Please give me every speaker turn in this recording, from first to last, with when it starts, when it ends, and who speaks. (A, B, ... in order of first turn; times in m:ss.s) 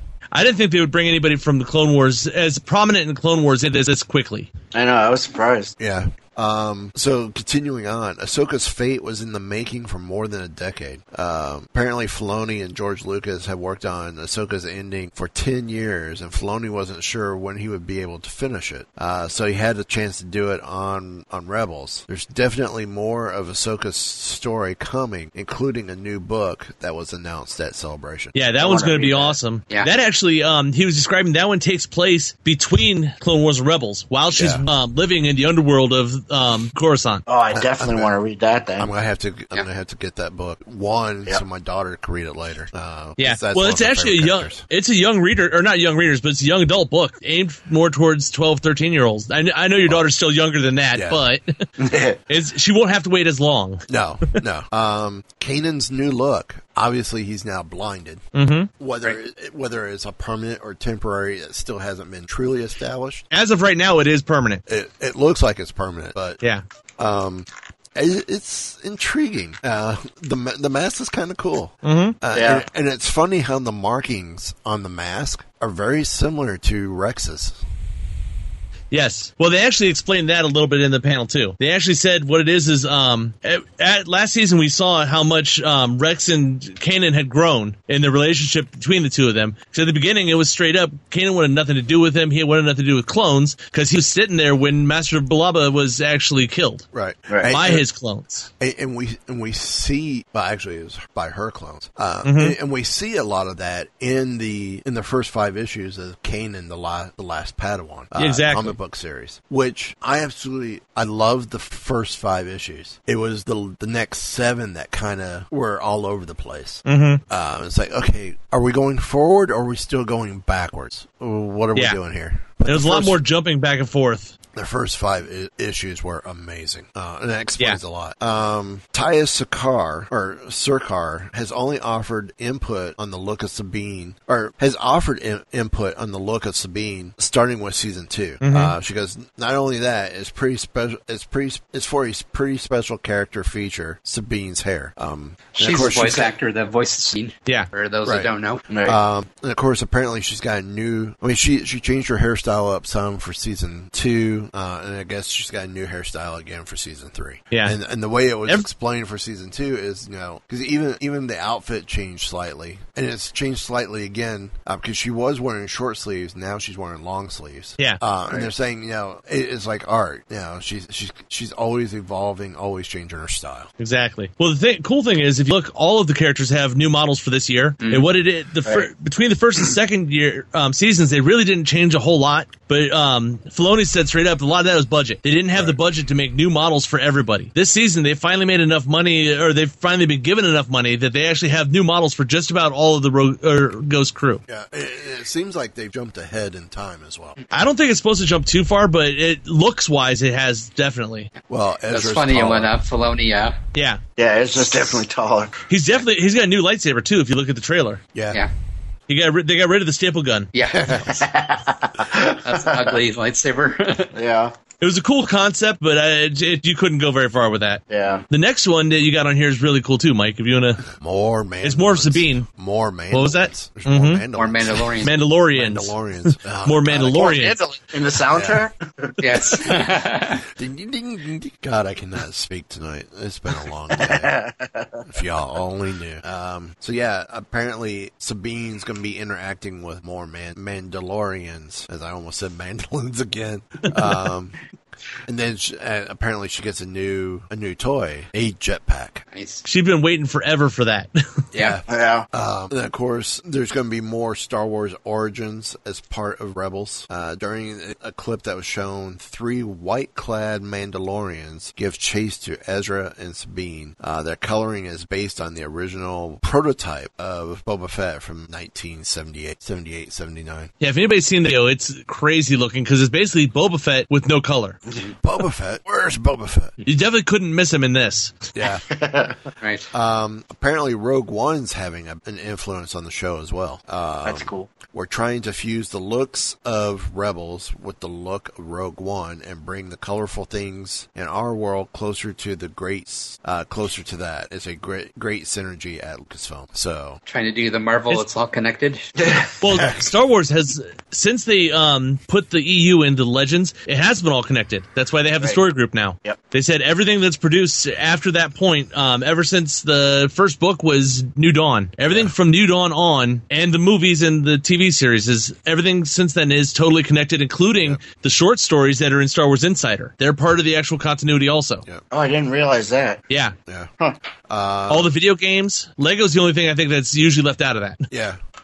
0:00.3-0:04.5 A
0:04.7-0:05.7 B
0:05.8-0:28.4 C
0:28.3-0:37.2 A
0:28.6-0:29.4 B
0:34.3-0:34.6 C
0:37.3-0:38.9 B
0:37.5-0:38.1 C
0:38.8-0:44.6 C
0:43.2-0:51.7 A
0:50.9-0:51.2 C
0:51.8-0:52.2 B
0:52.3-0:53.9 A
0:53.9-0:58.2 C
0:58.4-0:58.7 A
0:58.8-1:03.2 C
1:03.3-1:04.6 A
1:04.7-1:06.4 C
1:07.0-1:17.6 C
1:11.8-1:12.2 A
1:12.3-1:12.6 B
1:18.9-1:36.8 A
1:36.9-1:37.8 C
1:37.5-1:38.5 A
1:38.6-2:03.2 C
1:42.2-1:42.6 A
1:48.2-1:48.8 A
1:56.9-1:57.2 A
2:02.6-2:04.3 A
2:04.5-2:26.3 C
2:18.4-2:18.7 A
2:25.6-2:28.6 D
2:28.0-2:28.3 C
2:28.7-2:29.0 B
2:28.8-2:53.7 C
2:37.5-2:37.8 A
2:53.8-3:14.4 A
2:57.8-2:58.1 D
3:14.5-3:17.4 C
3:17.5-3:21.3 A
3:21.5-3:22.8 C
3:21.9-3:23.6 D
3:23.7-3:24.0 A
3:24.2-3:25.6 B
3:25.7-3:28.0 A
3:28.1-3:28.4 C
3:29.1-3:30.5 A
3:30.5-3:30.9 D
3:30.7-3:31.2 C
3:30.9-3:33.0 B
3:32.4-3:34.1 D
3:34.1-3:34.5 B
3:34.8-3:40.8 A
3:37.9-3:38.2 B
3:40.9-3:47.4 C
3:41.6-3:42.5 A
3:43.1-3:44.2 A
3:44.4-3:45.1 D
3:45.0-3:47.6 A
3:47.1-3:49.6 B
3:48.3-3:48.7 C
3:49.2-3:50.4 D
3:50.6-3:54.4 C
3:54.0-3:55.1 B
3:55.1-4:04.6 C
4:05.3-4:09.2 C
4:09.3-4:09.6 D
4:09.6-4:11.4 A
4:11.5-4:30.7 C
4:11.5-4:11.8 D
4:11.9-4:12.3 B
4:30.8-4:34.8 A
4:35.2-4:36.7 C
4:36.8-4:38.5 A
4:38.6-4:38.8 C
4:38.9-4:39.4 B
4:39.6-4:39.9 D
4:39.9-4:57.2 C
4:44.2-4:44.7 B
4:57.3-4:59.0 D
4:59.2-4:59.5 B
4:59.6-5:21.8 A
5:12.1-5:12.3 C
5:17.8-5:18.0 C
5:22.1-5:23.2 B
5:23.3-5:23.6 A
5:24.5-5:25.1 C
5:24.9-5:28.1 A
5:28.1-5:28.4 C